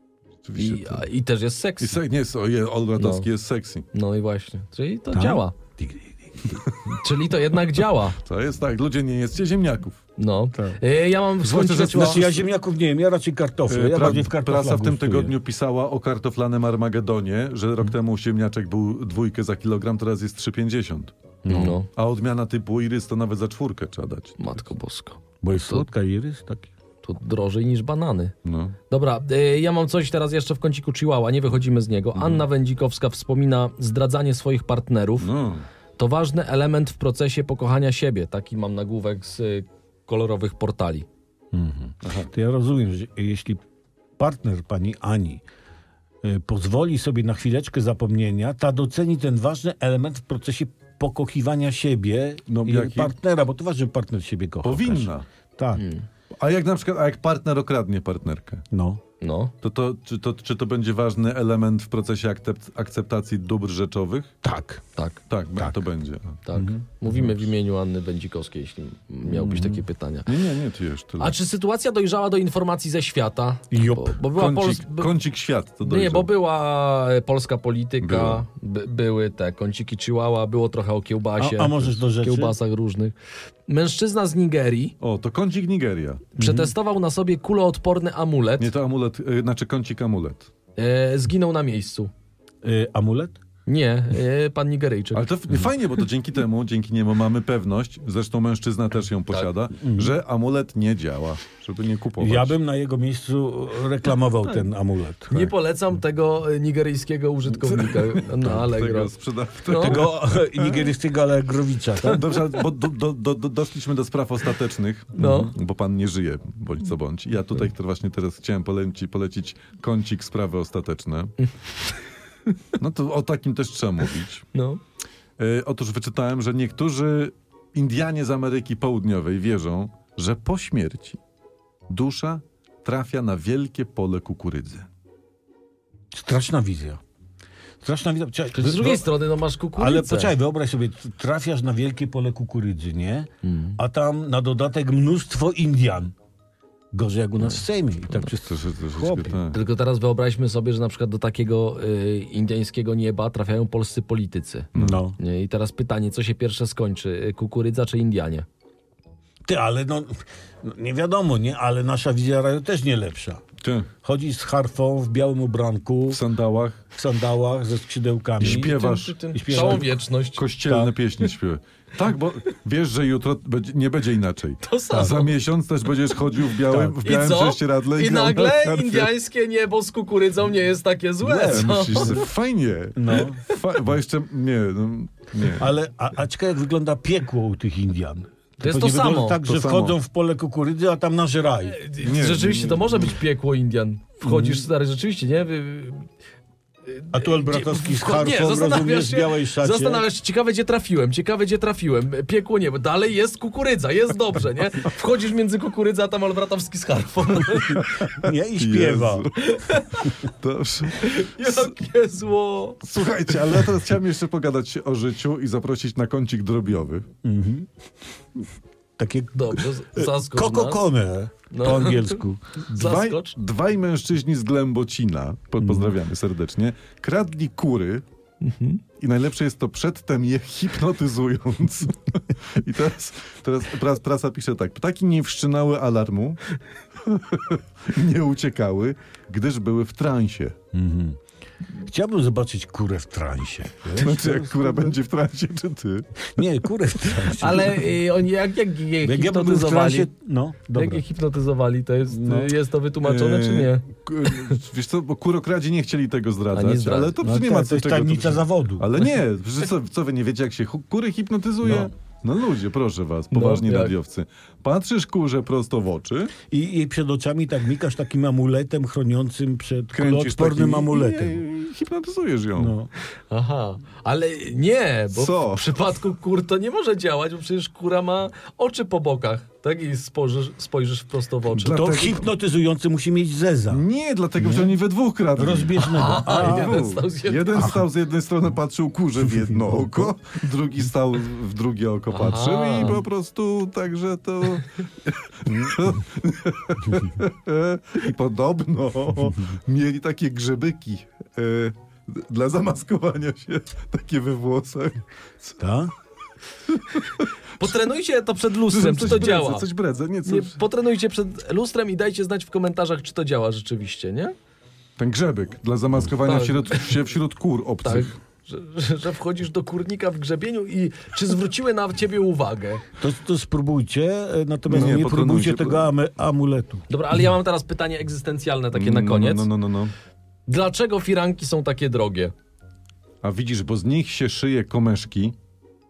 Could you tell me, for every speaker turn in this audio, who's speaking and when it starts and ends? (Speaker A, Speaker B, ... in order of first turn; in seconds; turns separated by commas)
Speaker A: 0.4-1.1, Speaker B: 0.6-2.0, Speaker A: 1.8-3.9, Speaker B: 3.0-3.3, Speaker B: 3.9-5.6, Speaker C: 5.1-6.6, Speaker A: 6.6-7.0, Speaker B: 6.9-8.2, Speaker A: 8.2-10.0, Speaker B: 10.2-12.3, Speaker A: 11.4-12.4, Speaker C: 11.7-15.4, Speaker A: 13.7-24.6, Speaker B: 21.4-21.9, Speaker B: 24.4-25.9, Speaker C: 25.4-26.7, Speaker B: 27.0-28.3, Speaker A: 28.4-28.8, Speaker B: 28.9-35.3, Speaker A: 32.1-32.4, Speaker A: 35.2-35.6, Speaker B: 36.0-41.1, Speaker C: 41.5-43.6, Speaker A: 42.0-42.3, Speaker C: 44.2-45.4, Speaker C: 46.2-55.8, Speaker A: 52.5-53.1, Speaker A: 54.6-55.2, Speaker B: 55.8-56.0, Speaker A: 56.4-58.6, Speaker C: 58.7-59.0, Speaker B: 59.2-59.5, Speaker A: 59.6-64.3, Speaker C: 64.4-64.8, Speaker A: 65.3-66.4, Speaker B: 66.5-70.3, Speaker C: 66.5-66.8, Speaker A: 67.1-67.4, Speaker C: 69.3-69.8, Speaker A: 70.3-71.3, Speaker B: 71.2-75.1, Speaker C: 73.7-74.2, Speaker A: 74.3-76.3, Speaker B: 75.8-83.1, Speaker A: 78.0-78.4, Speaker C: 81.4-82.5, Speaker B: 83.7-84.9, Speaker A: 85.0-86.3, Speaker B: 86.4-88.7, Speaker C: 86.4-86.7, Speaker A: 88.6-90.5, Speaker B: 90.8-92.1, Speaker C: 92.6-93.4, Speaker B: 93.7-95.3, Speaker A: 95.1-102.6, Speaker C: 99.8-100.2, Speaker C: 102.2-105.5, Speaker B: 105.3-109.1, Speaker A: 107.5-110.9, Speaker B: 109.6-110.1, Speaker C: 109.8-112.3, Speaker A: 112.1-121.3, Speaker B: 115.2-115.5, Speaker A: 122.8-124.4, Speaker B: 124.5-124.8, Speaker A: 125.4-131.2, Speaker A: 131.9-134.9, Speaker C: 136.1-137.0, Speaker C: 137.8-139.1, Speaker B: 138.5-140.3, Speaker C: 139.8-146.1, Speaker B: 143.4-143.8, Speaker C: 146.9-149.4, Speaker A: 148.2-149.6, Speaker B: 149.5-158.4, Speaker A: 154.8-155.0, Speaker C: 154.8-155.2, Speaker C: 159.4-163.4, Speaker A: 163.6-163.9, Speaker C: 164.0-166.2, Speaker A: 166.1-166.8, Speaker C: 166.9-168.8, Speaker B: 168.4-170.4, Speaker A: 168.4-179.1, Speaker C: 169.3-169.9, Speaker C: 170.6-170.9, Speaker B: 174.6-175.3, Speaker C: 176.7-177.0, Speaker B: 177.0-182.2, Speaker C: 181.2-182.3, Speaker A: 181.5-185.7, Speaker C: 182.9-183.4, Speaker C: 185.6-191.8, Speaker B: 188.6-189.4, Speaker A: 189.4-190.0, Speaker B: 191.6-196.1, Speaker A: 192.0-193.2, Speaker C: 194.2-194.7, Speaker B: 196.9-207.9, Speaker C: 197.1-200.1, Speaker A: 208.0-209.3, Speaker C: 208.1-209.3, Speaker B: 209.4-210.2, Speaker A: 210.3-211.7, Speaker B: 210.9-212.8, Speaker A: 212.8-217.1, Speaker C: 217.2-217.7, Speaker C: 219.0-222.4, Speaker B: 219.3-220.8, Speaker B: 221.5-223.3, Speaker A: 222.7-228.0, Speaker C: 225.6-225.9, Speaker B: 228.4-228.8, Speaker A: 229.0-236.4, Speaker A: 237.0-240.6, Speaker C: 240.7-241.2, Speaker C: 241.8-244.9, Speaker A: 244.0-246.1, Speaker C: 246.3-247.9, Speaker B: 247.4-250.1, Speaker C: 249.0-251.0, Speaker B: 250.7-254.6, Speaker C: 252.1-252.5, Speaker A: 253.0-266.4, Speaker B: 256.5-257.2, Speaker C: 257.2-258.9, Speaker C: 261.6-261.9, Speaker B: 263.3-263.9, Speaker C: 266.5-271.4, Speaker A: 269.9-272.7, Speaker C: 272.6-272.9, Speaker B: 273.3-281.9, Speaker A: 275.1-275.7, Speaker A: 281.5-282.3, Speaker C: 281.6-283.8, Speaker A: 283.7-305.6, Speaker C: 284.4-284.8, Speaker C: 285.4-286.8, Speaker B: 285.8-287.8, Speaker C: 289.7-290.1, Speaker B: 292.1-293.0, Speaker C: 305.6-305.9, Speaker A: 306.7-307.7, Speaker B: 307.6-309.7, Speaker A: 308.7-310.6, Speaker B: 310.3-314.3, Speaker A: 315.0-318.1, Speaker B: 316.2-316.9, Speaker B: 317.8-322.9, Speaker C: 323.0-326.9, Speaker A: 324.7-325.9, Speaker B: 326.9-329.5, Speaker A: 328.7-329.9, Speaker B: 330.5-332.3, Speaker A: 333.2-335.4